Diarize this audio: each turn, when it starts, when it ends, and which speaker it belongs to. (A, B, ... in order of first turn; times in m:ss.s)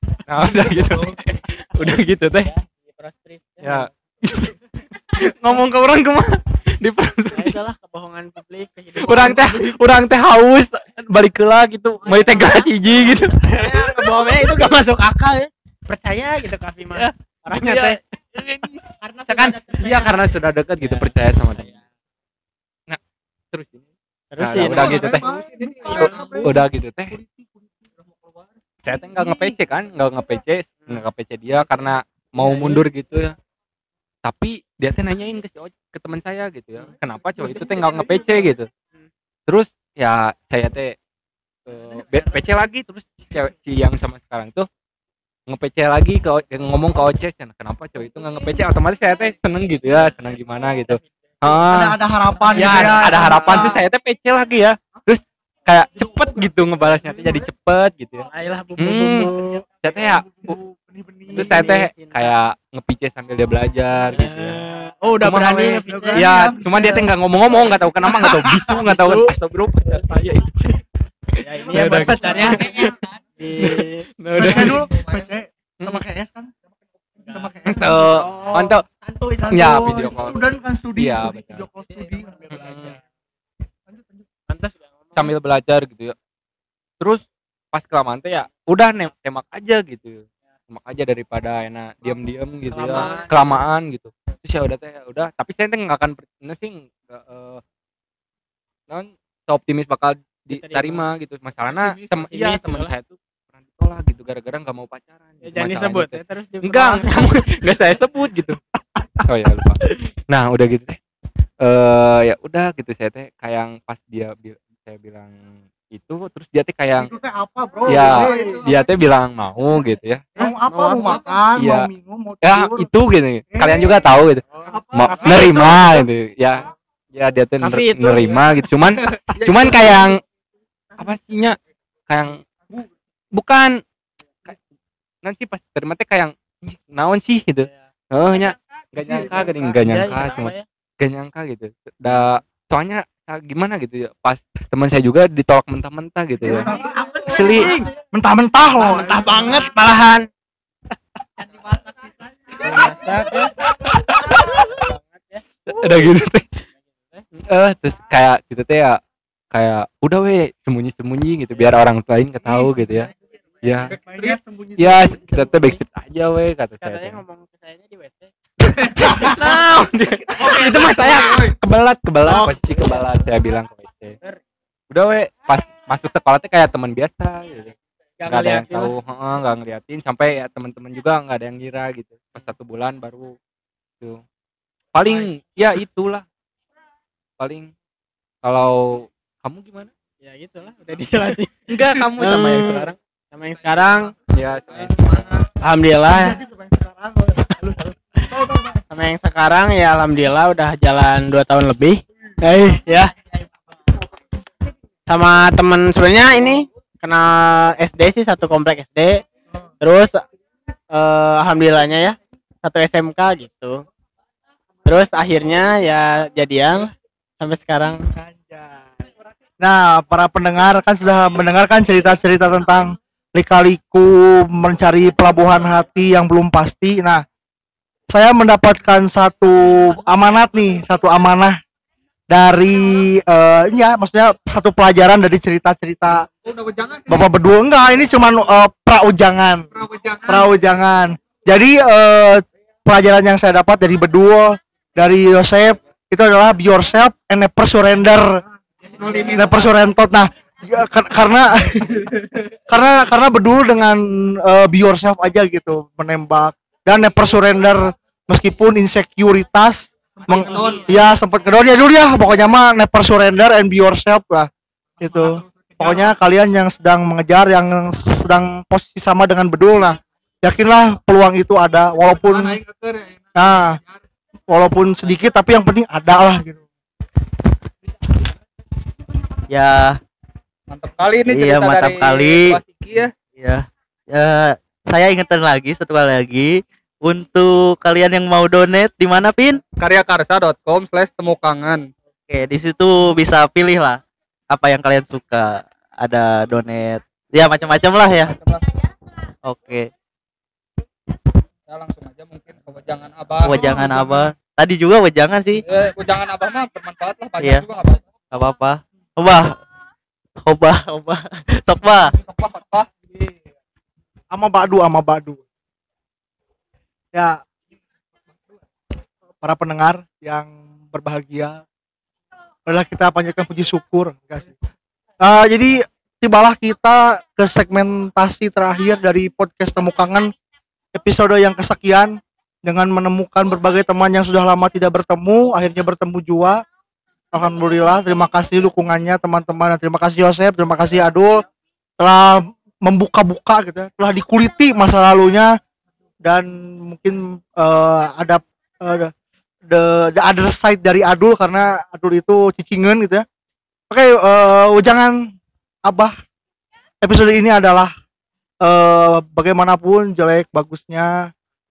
0:00.3-0:02.5 A
0:02.4-0:03.9 B
0:03.6-0:04.5 A
0:05.1-0:07.6 A
0:07.3-0:09.7 B
0:09.0-0:14.3 A
0:12.0-0:18.0 B
0:17.0-0:21.7 A
0:20.8-0:21.8 B
0:23.5-0:23.8 A
0:24.3-0:25.2 B
0:24.4-0:25.3 A
0:24.6-0:27.5 C
0:25.6-0:26.1 D
0:25.9-0:27.1 A
0:28.8-0:33.3 A
0:32.4-0:32.9 B
0:34.2-0:38.7 A
0:39.5-0:40.9 A
0:41.6-0:44.7 A
0:45.5-0:52.0 A
0:51.7-0:53.8 C
0:52.5-1:00.5 A
0:52.5-0:53.7 B
0:58.3-0:59.6 B
1:00.0-1:01.8 C
1:01.3-1:02.3 B
1:01.3-1:04.6 A
1:04.1-1:06.3 B
1:05.2-1:10.8 A
1:05.9-1:07.1 C
1:08.1-1:08.8 C
1:08.8-1:09.3 B
1:11.4-1:14.1 B
1:11.7-1:13.0 A
1:13.6-1:14.9 A
1:14.4-1:16.5 C
1:17.2-1:18.8 C
1:17.6-1:18.9 A
1:19.4-1:22.6 C
1:19.4-1:20.4 A
1:21.0-1:21.6 A
1:22.5-1:23.0 A
1:24.5-1:25.3 B
1:25.2-1:26.1 A
1:27.0-1:37.6 A
1:32.7-1:33.3 B
1:38.9-1:43.2 A
1:40.5-1:41.0 B
1:42.0-1:42.9 B
1:43.7-1:48.6 A
1:45.4-1:47.4 B
1:49.2-1:51.0 A
1:51.6-1:55.3 A
1:55.9-1:57.1 A
1:57.0-1:58.6 C
1:57.9-2:00.3 A
1:58.0-1:58.8 D
2:00.4-2:01.2 B
2:00.4-2:02.9 C
2:01.6-2:01.9 A
2:02.4-2:04.4 A
2:03.5-2:04.1 C
2:04.5-2:05.8 B
2:04.7-2:05.6 D
2:04.9-2:10.2 A
2:07.6-2:08.4 B
2:09.2-2:09.7 D
2:11.0-2:12.4 A
2:13.3-2:13.8 A
2:15.2-2:26.7 A
2:19.7-2:20.6 B
2:26.4-2:26.9 C
2:26.7-2:27.9 B
2:27.3-2:27.8 A
2:28.1-2:29.4 C
2:28.8-2:30.3 B
2:32.6-2:33.6 B
2:33.6-2:34.8 A
2:34.3-2:35.4 B
2:35.7-2:36.6 A
2:36.8-2:37.2 B
2:37.3-2:39.0 A
2:39.5-2:43.1 A
2:43.6-2:44.0 A
2:43.9-2:45.2 C
2:44.1-2:44.4 D
2:44.8-2:47.2 A
2:45.3-2:45.8 B
2:46.8-2:48.3 B
2:48.6-2:54.2 A
2:48.9-2:49.4 B
2:50.5-2:51.4 D
2:52.2-2:53.3 B
2:54.9-2:57.8 A
2:58.2-2:58.9 B
2:58.3-3:03.4 A
3:04.9-3:06.2 A
3:07.4-3:07.7 A
3:08.4-3:09.9 A
3:10.2-3:14.1 B
3:11.7-3:13.0 A
3:14.3-3:15.3 A
3:15.6-3:16.4 B
3:16.0-3:18.8 C
3:18.9-3:23.1 B
3:25.1-3:29.2 B
3:29.8-3:30.2 B
3:30.9-3:33.8 B
3:34.9-3:38.0 B
3:38.1-3:38.7 C
3:39.6-3:47.2 C
3:48.1-3:51.6 C
3:52.3-3:56.3 C
3:56.4-3:57.3 D
3:57.1-3:59.7 C
3:59.8-4:00.4 D
4:00.2-4:08.4 C
4:08.9-4:09.7 D
4:09.3-4:32.6 C
4:20.3-4:20.9 D
4:25.2-4:26.0 D
4:32.4-4:33.3 D
4:33.3-4:33.8 C
4:34.5-4:36.6 C
4:39.5-4:40.0 E
4:40.7-4:43.1 D
4:41.2-4:42.6 E
4:43.4-4:49.6 E
4:49.8-4:51.9 D
4:52.3-4:58.4 E
4:58.4-4:58.6 D
4:59.4-4:59.9 E
5:01.7-5:04.0 D
5:03.4-5:05.6 E
5:05.6-5:08.0 D
5:07.4-5:07.6 E
5:08.3-5:09.6 E
5:10.4-5:12.1 E
5:12.1-5:13.3 D
5:14.3-5:15.4 C
5:17.1-5:17.4 C
5:19.4-5:21.6 C
5:22.6-5:24.6 C
5:25.2-5:30.3 C
5:30.9-5:36.6 C
5:37.3-5:41.4 C
5:42.0-5:45.5 C
5:46.2-5:49.1 C
5:49.7-5:53.2 C
5:53.9-5:55.2 C
5:55.9-5:56.1 C
5:57.0-5:57.9 C
5:58.6-6:01.3 C